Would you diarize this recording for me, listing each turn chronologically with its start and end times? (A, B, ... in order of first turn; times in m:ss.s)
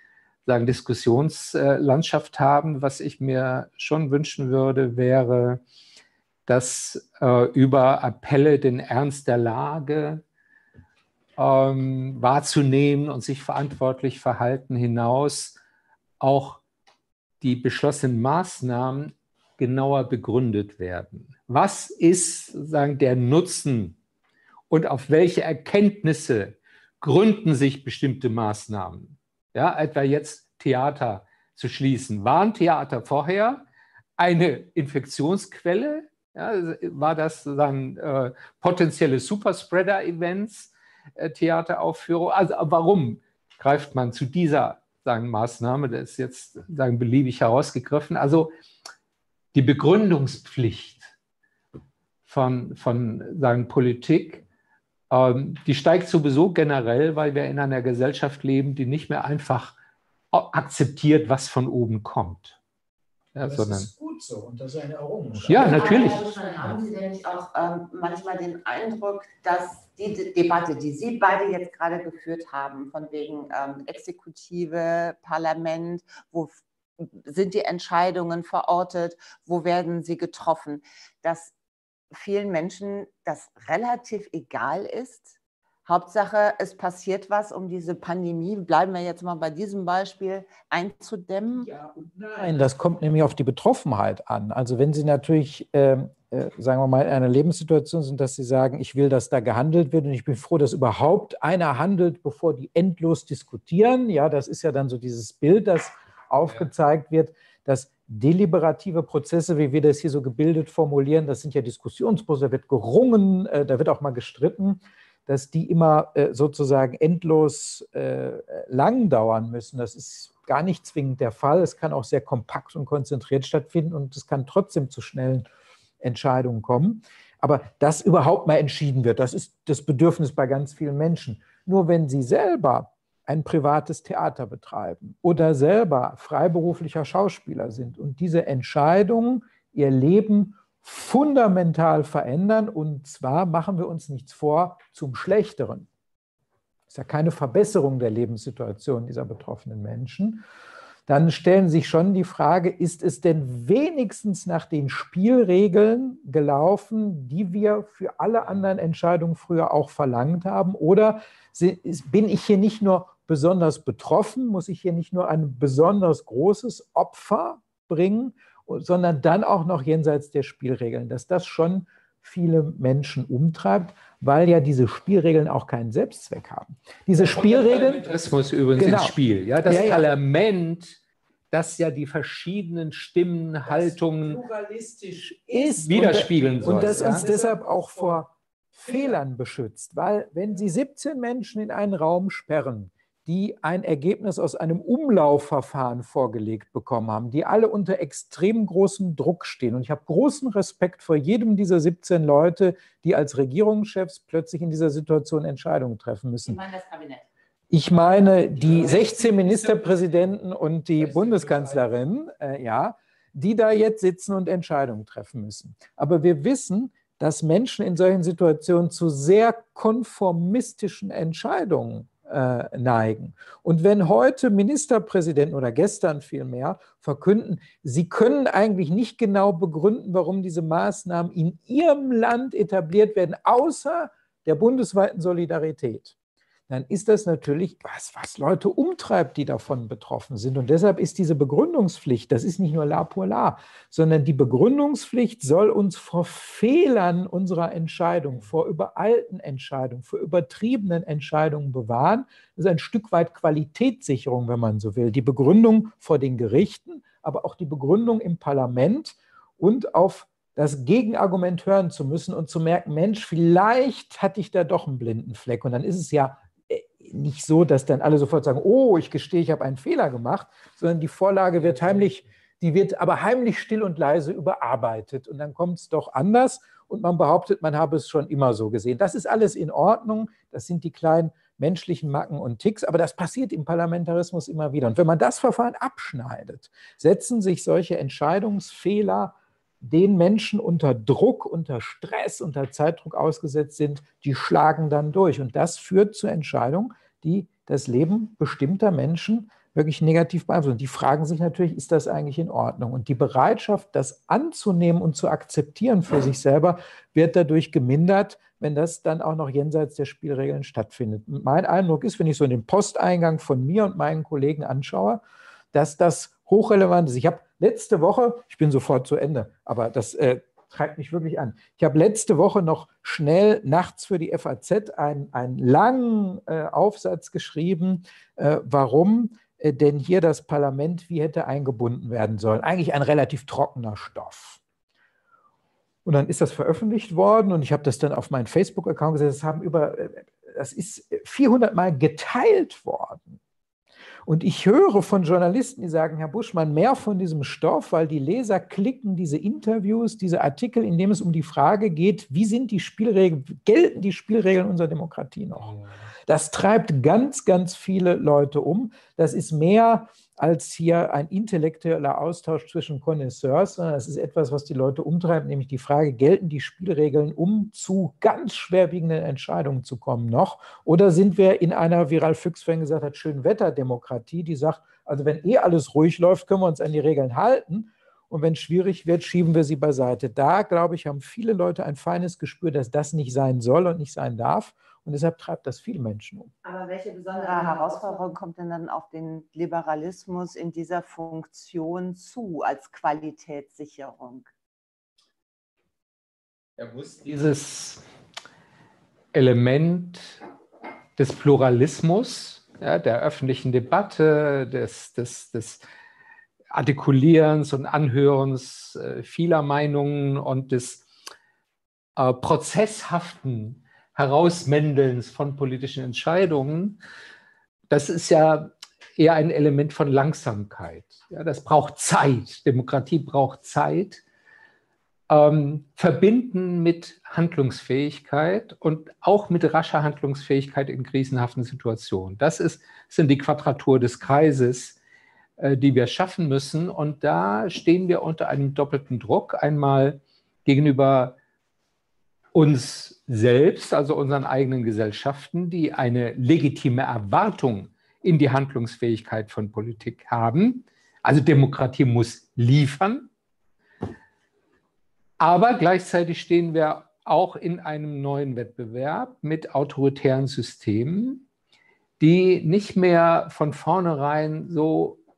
0:00.4-0:05.6 A
0:06.5-0:10.2 A
0:11.4-0:15.6 A
0:16.2-0:16.6 A
0:17.4-0:24.0 A
0:24.7-0:33.6 A
0:34.2-0:48.5 A
0:49.5-0:51.1 A
0:52.3-0:54.4 A
0:55.1-0:59.8 A
1:00.3-1:02.6 A
1:03.3-1:03.9 A
1:03.4-1:06.1 B
1:05.5-1:06.3 A
1:05.6-1:21.5 C
1:22.1-1:31.7 C
1:31.8-2:05.5 B
2:06.0-2:25.9 B
2:26.9-2:30.4 B
2:31.1-2:58.1 B
2:57.1-3:01.0 A
2:58.8-3:00.1 B
3:01.5-3:04.4 A
3:03.9-3:26.6 B
3:05.6-3:07.3 A
3:26.4-3:27.3 C
3:27.7-3:56.2 B
3:56.7-5:15.2 B
4:31.7-4:32.1 A
5:15.7-5:34.6 B
5:36.0-5:43.4 B
5:44.3-5:55.7 B
5:55.6-5:55.9 A
5:56.3-6:26.5 B
6:26.6-6:34.5 C
6:36.8-6:38.0 A
6:39.3-6:40.4 A
6:41.2-6:45.8 A
6:46.7-6:51.1 A
6:52.2-6:57.0 A
6:57.9-7:04.2 A
7:05.3-7:15.0 A
7:15.6-7:21.4 A
7:22.5-7:33.3 A
7:35.4-7:41.4 A
7:42.2-7:45.2 A